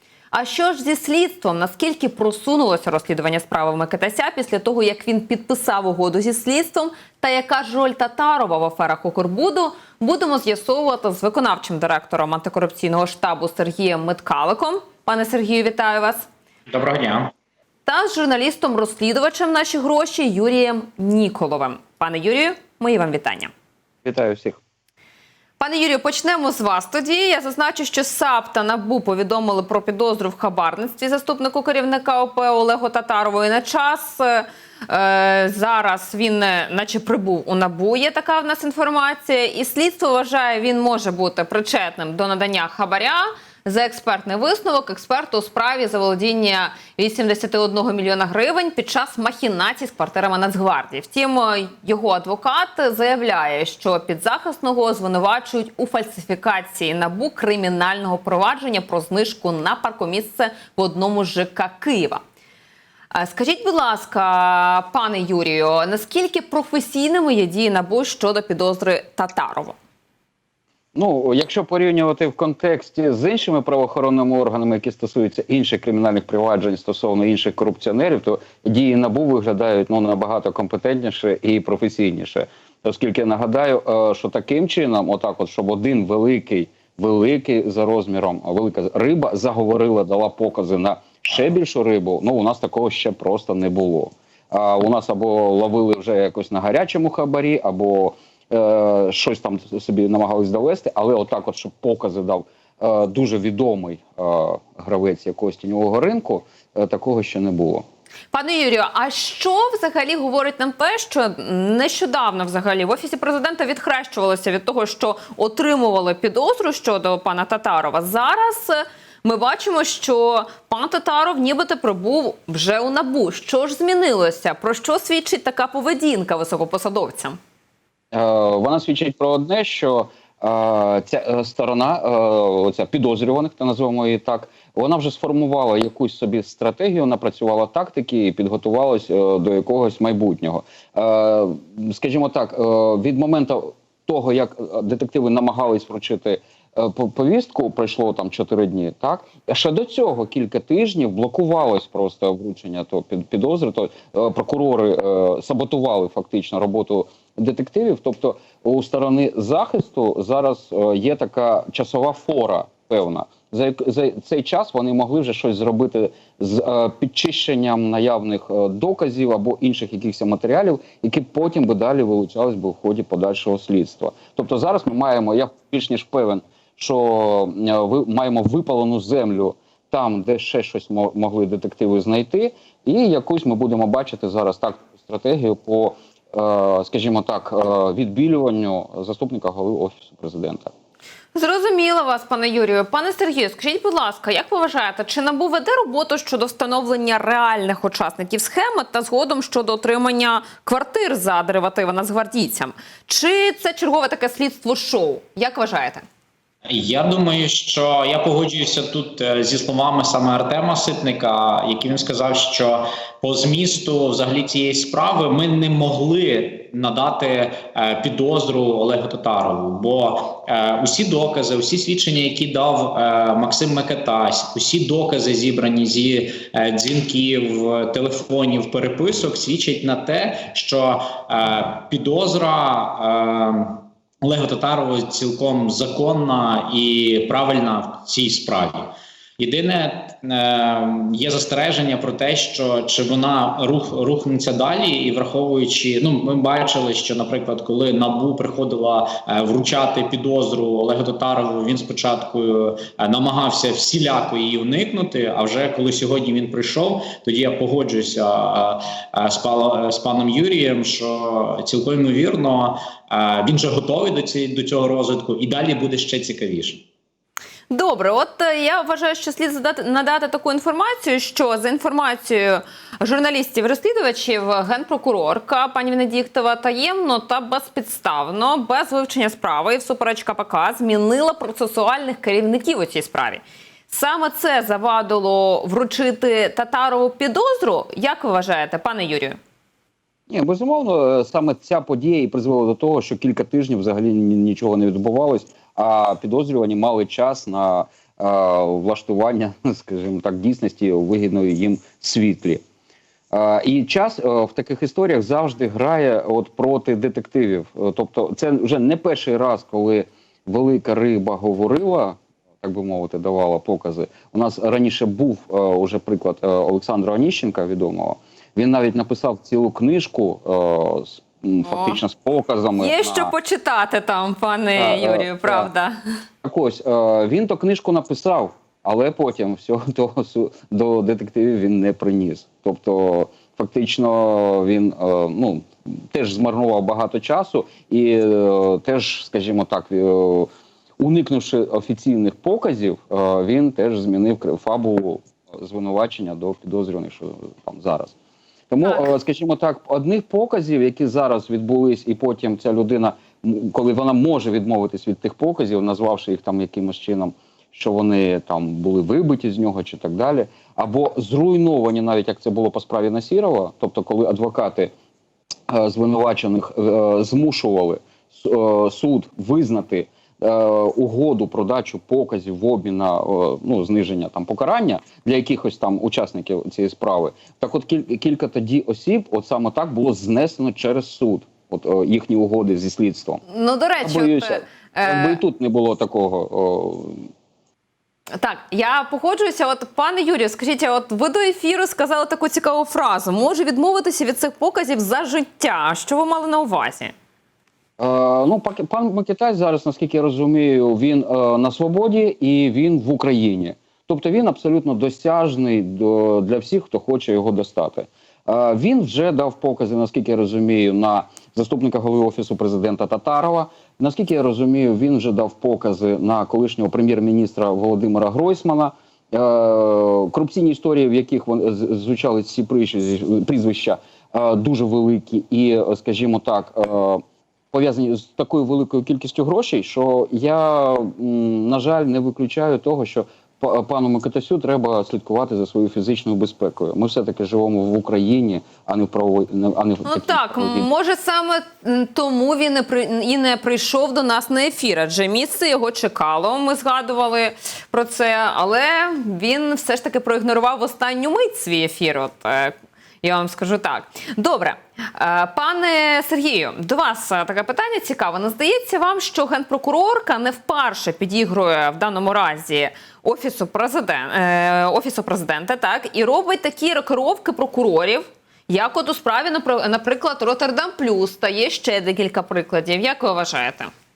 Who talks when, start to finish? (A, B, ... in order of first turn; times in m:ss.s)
0:00.3-0:16.3 A
0:16.7-0:17.3 B
0:17.9-0:23.5 A
0:24.0-0:24.6 C
0:25.6-1:02.2 A
1:03.1-1:09.8 A
1:11.0-1:47.8 C
1:48.3-2:07.4 A
2:08.1-3:10.7 C
3:11.3-3:26.0 A
3:26.7-4:26.8 B
4:27.7-4:49.4 A
4:50.3-5:02.6 C
5:03.3-5:23.3 C
5:21.6-5:22.0 A
5:22.8-5:26.0 A
5:24.8-5:25.7 C
5:26.4-5:48.2 C
5:48.7-6:04.9 C
5:48.8-5:49.1 A
6:05.7-6:23.4 C
6:23.5-6:25.4 A
6:24.0-6:27.3 C
6:28.3-6:37.1 A
6:38.0-7:20.9 C
7:20.0-7:53.9 A